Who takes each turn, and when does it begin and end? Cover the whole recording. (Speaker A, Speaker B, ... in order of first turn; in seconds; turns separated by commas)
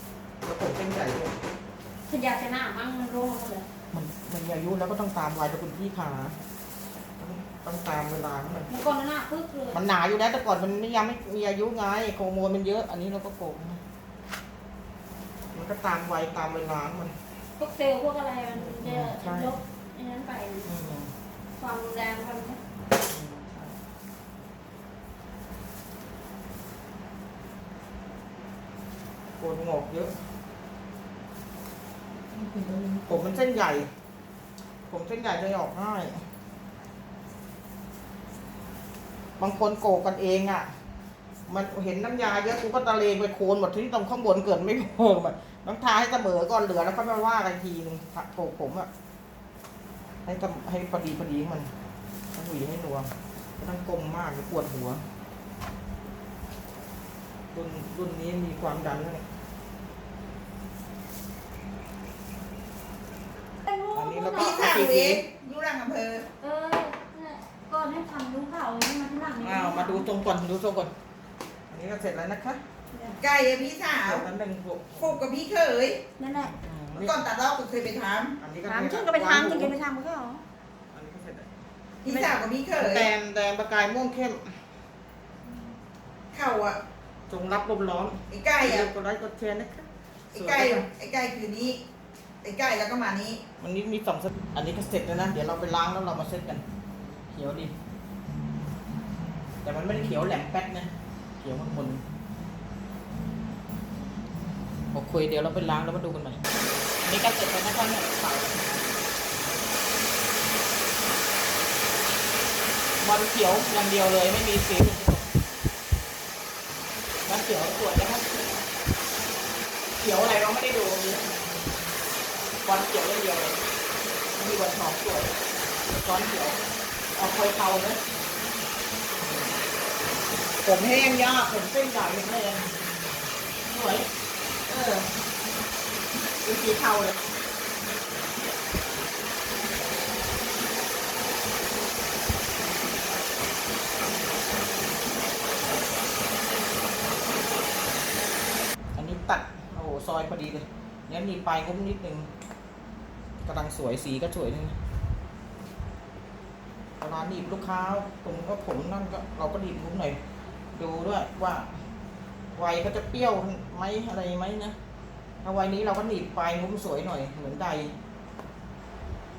Speaker A: 0.4-1.4, Speaker B: 2.1-3.7, Speaker A: 3.9-6.4, Speaker A: 7.2-8.7, Speaker B: 8.7-9.8, Speaker A: 9.7-13.8, Speaker A: 15.5-17.1, Speaker B: 17.6-20.7, Speaker A: 18.6-19.6, Speaker A: 20.6-21.1, Speaker B: 21.6-22.6, Speaker A: 23.1-23.8, Speaker A: 29.4-30.2, Speaker C: 32.3-33.3, Speaker A: 33.1-33.9, Speaker A: 34.9-36.2, Speaker A: 39.4-40.7, Speaker A: 41.5-48.9, Speaker A: 50.2-51.7, Speaker A: 52.3-55.0, Speaker A: 57.5-59.2, Speaker B: 63.7-64.7, Speaker A: 63.9-65.2, Speaker C: 64.3-66.3, Speaker B: 66.4-70.1, Speaker A: 69.4-70.9, Speaker A: 71.7-72.6, Speaker B: 72.9-73.2, Speaker C: 73.2-74.3, Speaker A: 74.0-75.2, Speaker C: 75.0-76.0, Speaker B: 76.2-76.6, Speaker A: 76.4-77.2, Speaker C: 77.0-78.4, Speaker A: 78.4-79.8, Speaker B: 78.6-80.4, Speaker A: 80.9-81.5, Speaker C: 82.0-83.1, Speaker A: 82.0-84.6, Speaker C: 86.3-86.8, Speaker A: 87.3-90.8, Speaker C: 88.3-88.9, Speaker C: 90.3-91.8, Speaker C: 92.4-93.4, Speaker A: 93.6-97.7, Speaker A: 99.6-102.0, Speaker A: 104.9-106.4, Speaker A: 107.0-108.7, Speaker A: 113.0-115.3, Speaker A: 117.2-118.2, Speaker A: 120.0-121.3, Speaker A: 122.6-123.6, Speaker A: 124.3-125.3, Speaker A: 125.9-126.6, Speaker A: 127.1-128.0, Speaker A: 129.2-129.5, Speaker A: 130.6-132.7, Speaker A: 133.7-134.1, Speaker A: 134.7-135.1, Speaker A: 136.4-137.2, Speaker A: 149.0-152.3, Speaker A: 153.4-154.8, Speaker A: 157.0-160.2, Speaker A: 160.8-161.7, Speaker A: 162.5-164.8, Speaker A: 165.4-167.9